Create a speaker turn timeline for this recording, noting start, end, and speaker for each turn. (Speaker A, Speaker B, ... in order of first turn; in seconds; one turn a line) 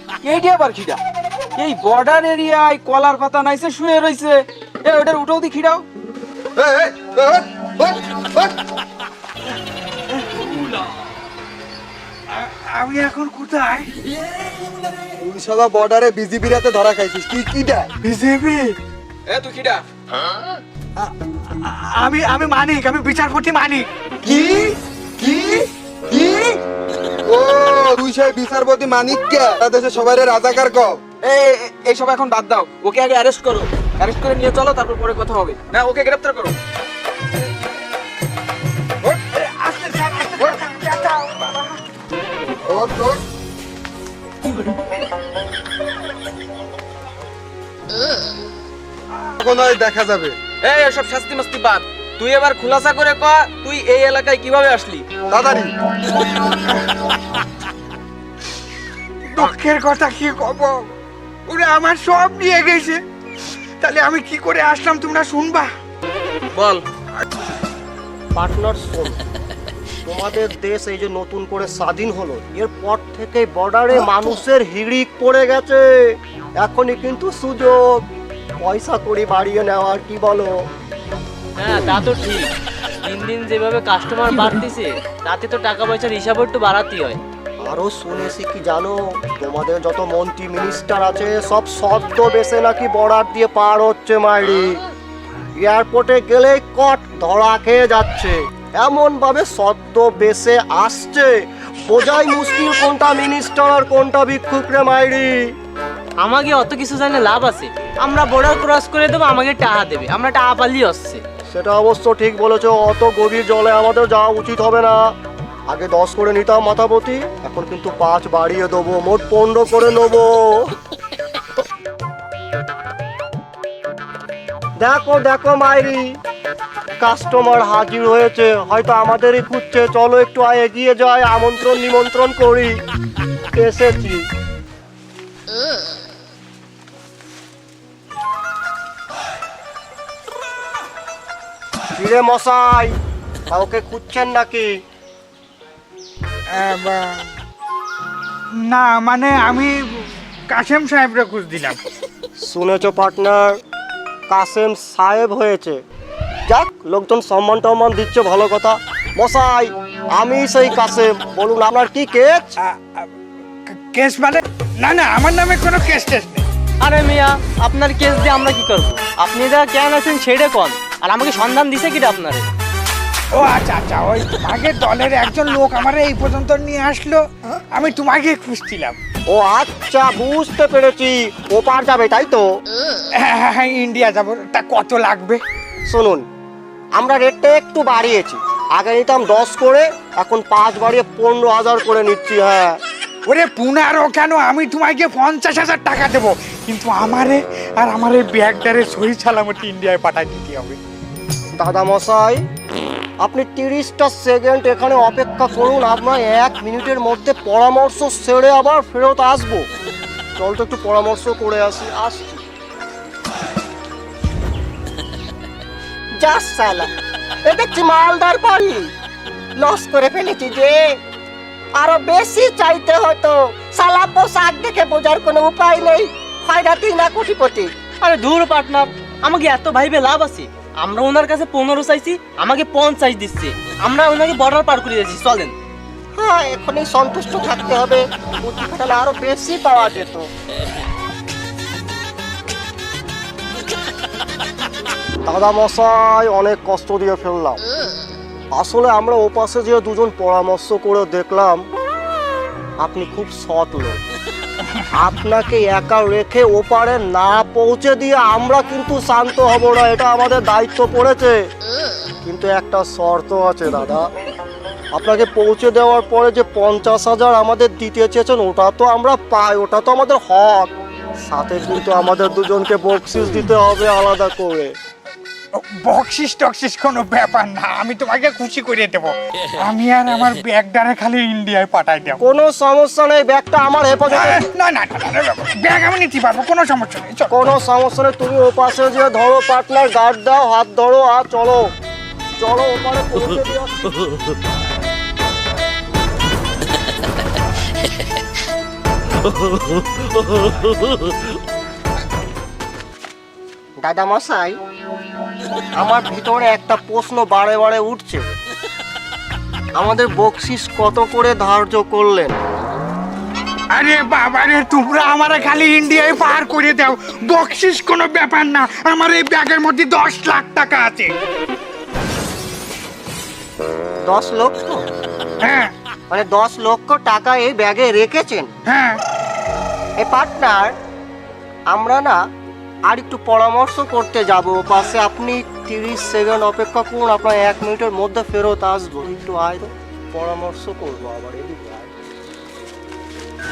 Speaker A: 0.2-1.0
Speaker A: 1.6-5.8
Speaker B: 6.6-8.5
Speaker C: 12.3-13.9
Speaker B: 15.2-17.9
Speaker C: 18.0-18.8
Speaker A: 19.3-19.8
Speaker C: 21.0-23.9
Speaker B: 24.3-26.6
Speaker B: 27.3-31.0
Speaker A: 31.2-36.5
Speaker C: 39.0-41.8
Speaker B: 42.7-43.2
Speaker B: 49.4-50.3
Speaker A: 50.6-55.1
Speaker B: 55.3-55.7
Speaker C: 59.3-60.9
Speaker C: 61.5-63.0
Speaker C: 63.8-65.7
Speaker A: 66.6-66.8
Speaker D: 68.3-69.2
Speaker D: 70.0-76.0
Speaker D: 76.6-78.0
Speaker D: 78.6-80.6
Speaker E: 81.6-82.5
Speaker E: 83.0-87.2
Speaker D: 87.6-94.8
Speaker D: 95.6-101.3
Speaker D: 101.9-105.5
Speaker E: 106.2-111.2
Speaker D: 111.5-115.0
Speaker D: 115.7-120.7
Speaker D: 124.8-126.1
Speaker D: 127.0-132.8
Speaker D: 133.5-134.2
Speaker D: 142.0-142.9
Speaker D: 143.5-144.7
Speaker C: 146.5-147.3
Speaker C: 148.6-151.8
Speaker D: 152.4-153.6
Speaker D: 154.3-155.8
Speaker D: 156.5-162.5
Speaker C: 162.6-163.1
Speaker C: 163.7-166.5
Speaker E: 166.8-172.5
Speaker C: 173.3-179.0
Speaker D: 179.3-182.5
Speaker C: 183.2-185.4
Speaker D: 185.9-186.2
Speaker D: 187.0-192.8
Speaker C: 193.2-200.8
Speaker D: 201.6-202.4
Speaker D: 203.2-209.7
Speaker D: 210.4-212.4
Speaker D: 216.2-216.9
Speaker D: 217.5-218.9
Speaker D: 219.6-220.9
Speaker D: 221.8-227.7
Speaker E: 228.0-235.6
Speaker D: 236.2-240.3
Speaker D: 245.3-247.6
Speaker D: 248.5-251.6
Speaker D: 252.8-254.0
Speaker D: 254.9-261.4
Speaker D: 262.2-264.1
Speaker D: 264.9-270.7
Speaker D: 271.2-274.7
Speaker C: 275.8-282.2
Speaker D: 282.2-284.4
Speaker C: 284.1-287.4
Speaker D: 287.3-291.6
Speaker D: 292.4-294.0
Speaker D: 303.8-304.6
Speaker D: 305.8-308.2
Speaker D: 309.8-312.4
Speaker C: 313.7-321.1
Speaker D: 324.1-324.9
Speaker C: 325.4-325.7
Speaker D: 326.1-328.5
Speaker C: 328.7-329.0
Speaker D: 330.0-330.8
Speaker D: 331.7-332.2
Speaker D: 332.9-341.9